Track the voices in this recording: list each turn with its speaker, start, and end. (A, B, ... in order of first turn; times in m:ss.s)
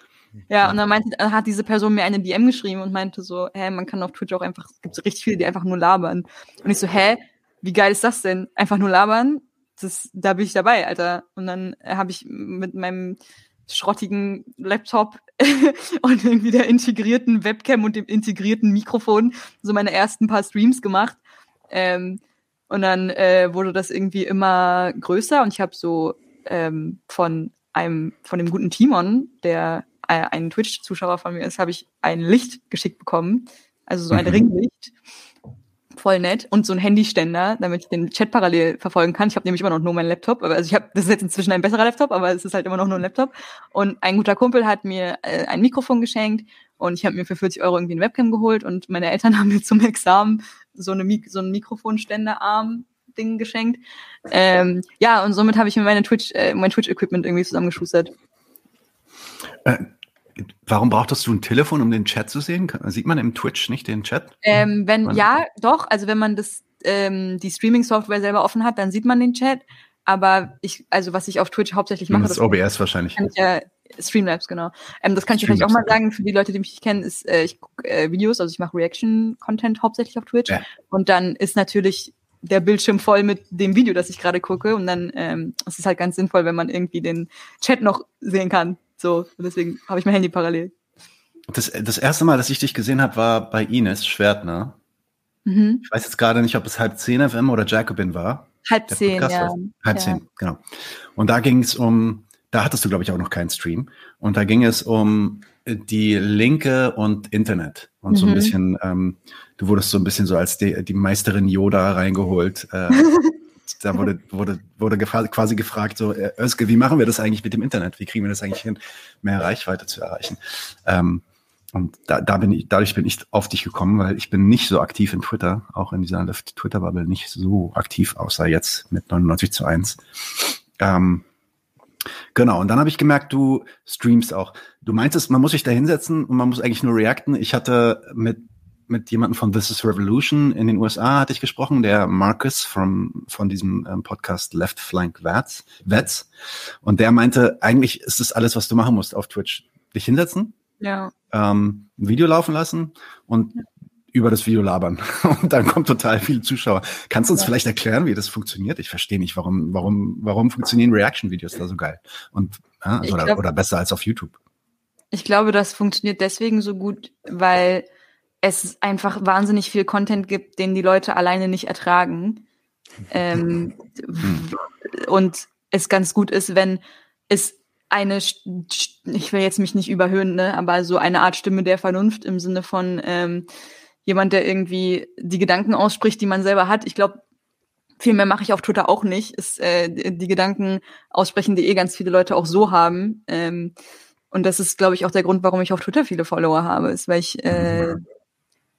0:00.5-0:21.2 A
0:21.7-0:34.9 A
0:34.1-0:34.4 B
0:36.0-0:58.1 A
1:00.4-1:05.2 B
1:04.4-1:12.6 A
1:12.1-1:13.3 B
1:13.2-1:30.7 A
1:15.4-1:16.0 B
1:31.5-1:34.8 B
1:35.4-1:35.8 A
1:35.8-1:53.3 B
1:38.6-1:40.2 A
1:48.1-1:48.5 A
1:53.0-1:53.3 A
1:53.8-2:11.2 B
2:12.3-2:30.5 B
2:30.8-2:31.1 A
2:31.3-2:33.6 B
2:34.1-2:44.4 B
2:43.0-2:43.4 A
2:45.1-2:47.8 A
2:48.4-2:52.4 A
2:53.1-3:03.4 A
2:54.2-2:54.5 B
3:04.0-3:07.2 A
3:08.0-3:13.7 A
3:14.3-3:18.0 A
3:17.5-3:18.0 B